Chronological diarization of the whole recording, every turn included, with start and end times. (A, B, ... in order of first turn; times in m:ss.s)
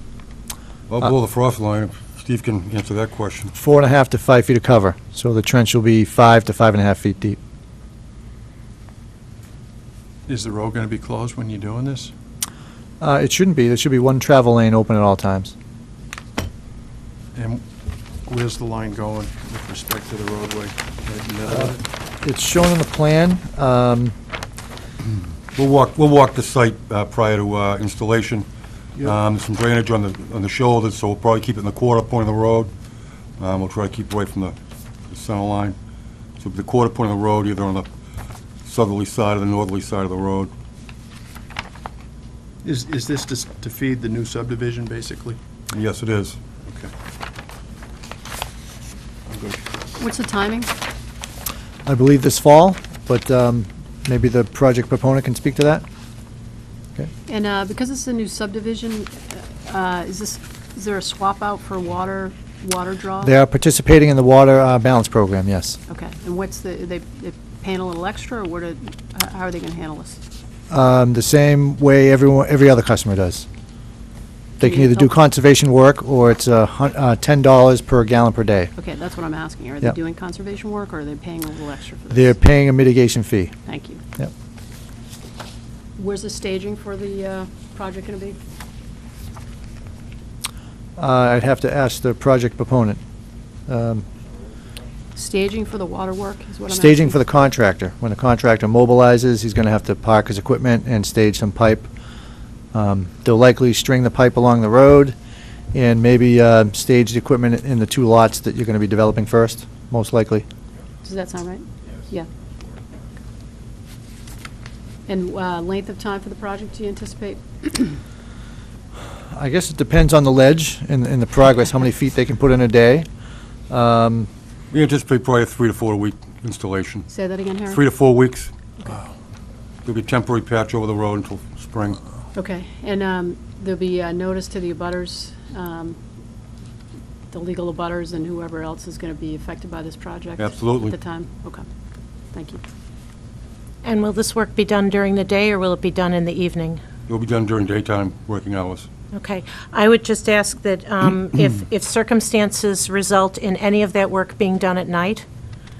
0:00.9-0:03.5 A
0:03.6-0:07.4 B
0:10.3-0:12.1 C
0:13.0-0:15.5 B
0:17.4-0:17.6 C
0:18.3-0:21.8 C
0:21.5-0:24.1 B
0:25.6-0:28.5 A
0:29.0-0:32.7 A
0:33.4-0:34.6 A
0:35.1-0:35.8 A
0:36.4-0:37.9 A
0:38.6-0:40.5 A
0:42.6-0:45.4 C
0:45.7-0:46.4 A
0:46.6-0:46.9 C
0:49.3-0:49.6 C
0:50.0-0:50.7 D
0:51.9-0:55.8 B
0:57.3-1:03.3 D
1:03.2-1:05.8 B
1:05.9-1:10.2 D
1:10.7-1:13.5 B
1:14.6-1:18.7 B
1:14.6-1:15.1 D
1:18.8-1:22.3 D
1:22.1-1:23.6 B
1:23.7-1:24.0 D
1:26.0-1:28.4 D
1:31.0-1:33.0 B
1:33.7-1:34.0 B
1:35.2-1:37.3 D
1:36.7-1:41.9 B
1:42.7-1:45.2 B
1:45.7-1:50.5 B
1:51.0-1:52.3 D
1:55.1-1:58.0 D
1:59.3-2:03.1 B
2:03.7-2:04.3 B
2:04.7-2:07.1 A
2:07.1-2:07.8 D
2:07.7-2:08.5 A
2:09.8-2:12.0 A
2:12.3-2:16.0 D
2:17.3-2:21.6 D
2:20.4-2:21.0 A
2:22.3-2:22.6 D
2:23.8-2:26.8 E
2:27.1-2:28.9 A
2:29.1-2:35.3 E